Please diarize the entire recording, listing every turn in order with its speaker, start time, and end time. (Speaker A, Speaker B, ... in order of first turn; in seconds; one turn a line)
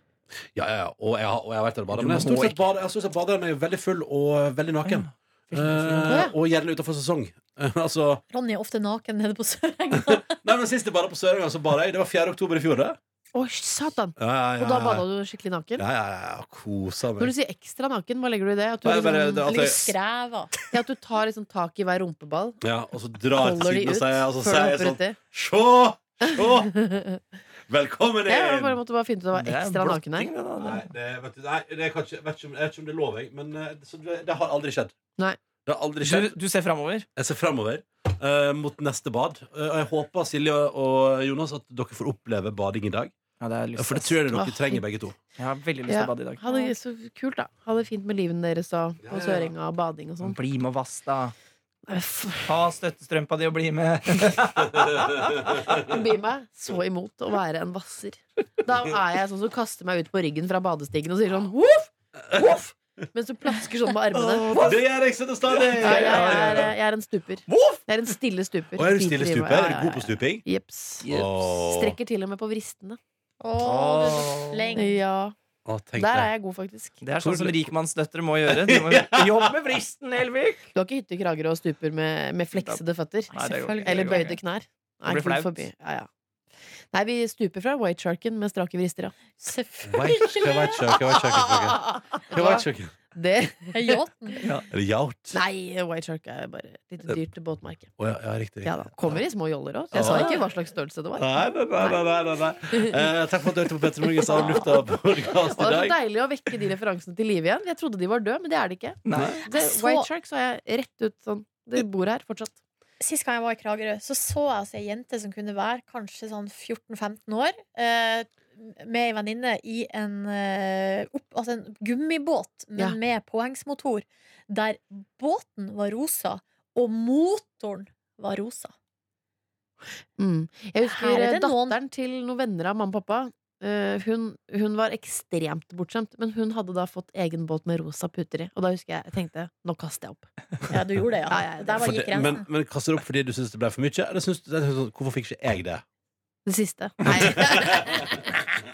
Speaker A: 0.5-8.2
Speaker B: 1.9-2.6
Speaker B: 4.8-6.3
Speaker C: 6.1-6.3
Speaker D: 8.3-10.4
Speaker A: 9.9-13.0
Speaker C: 13.3-15.8
Speaker A: 14.2-15.1
Speaker A: 15.8-17.3
Speaker C: 17.2-19.7
Speaker A: 18.8-19.9
Speaker D: 19.4-20.5
Speaker C: 20.7-22.6
Speaker A: 22.6-26.7
Speaker C: 23.3-25.2
Speaker C: 26.3-27.2
Speaker A: 27.7-28.8
Speaker C: 28.3-30.3
Speaker B: 29.3-30.9
Speaker A: 30.6-35.0
Speaker A: 35.6-36.3
Speaker B: 36.0-37.1
Speaker A: 37.2-43.1
Speaker B: 43.4-44.2
Speaker A: 43.8-45.2
Speaker C: 44.3-44.8
Speaker B: 45.4-46.4
Speaker C: 45.9-50.4
Speaker D: 46.5-46.7
Speaker A: 49.0-49.5
Speaker B: 50.2-51.3
Speaker C: 51.9-52.5
Speaker B: 52.5-55.8
Speaker A: 54.8-55.8
Speaker C: 55.6-64.8
Speaker B: 64.1-64.8
Speaker A: 64.6-66.7
Speaker B: 65.5-66.7
Speaker C: 65.8-73.0
Speaker B: 67.5-67.8
Speaker A: 68.8-70.5
Speaker B: 71.0-71.3
Speaker A: 71.0-72.0
Speaker D: 73.4-75.0
Speaker B: 73.6-74.8
Speaker C: 74.8-75.3
Speaker A: 75.7-76.3
Speaker C: 76.0-77.0
Speaker B: 77.0-80.7
Speaker A: 77.2-77.7
Speaker A: 78.5-79.5
Speaker C: 80.7-86.1
Speaker B: 82.5-82.8
Speaker B: 83.3-84.4
Speaker D: 83.3-84.4
Speaker B: 85.1-85.7
Speaker C: 86.9-89.2
Speaker D: 89.4-90.8
Speaker A: 89.9-92.9
Speaker C: 91.1-94.5
Speaker D: 93.7-94.4
Speaker A: 94.7-95.4
Speaker C: 95.3-97.9
Speaker A: 98.0-99.2
Speaker C: 98.6-102.1
Speaker A: 99.9-100.3
Speaker B: 99.9-100.5
Speaker A: 101.2-106.0
Speaker C: 102.7-103.0
Speaker C: 104.2-104.8
Speaker C: 105.5-112.6
Speaker B: 109.0-109.4
Speaker A: 109.1-109.4
Speaker D: 109.5-110.1
Speaker D: 113.0-128.7
Speaker C: 130.2-140.3
Speaker D: 130.8-131.8
Speaker D: 140.7-142.5
Speaker C: 141.3-142.0
Speaker A: 141.8-145.8
Speaker C: 146.5-148.4
Speaker A: 147.1-148.1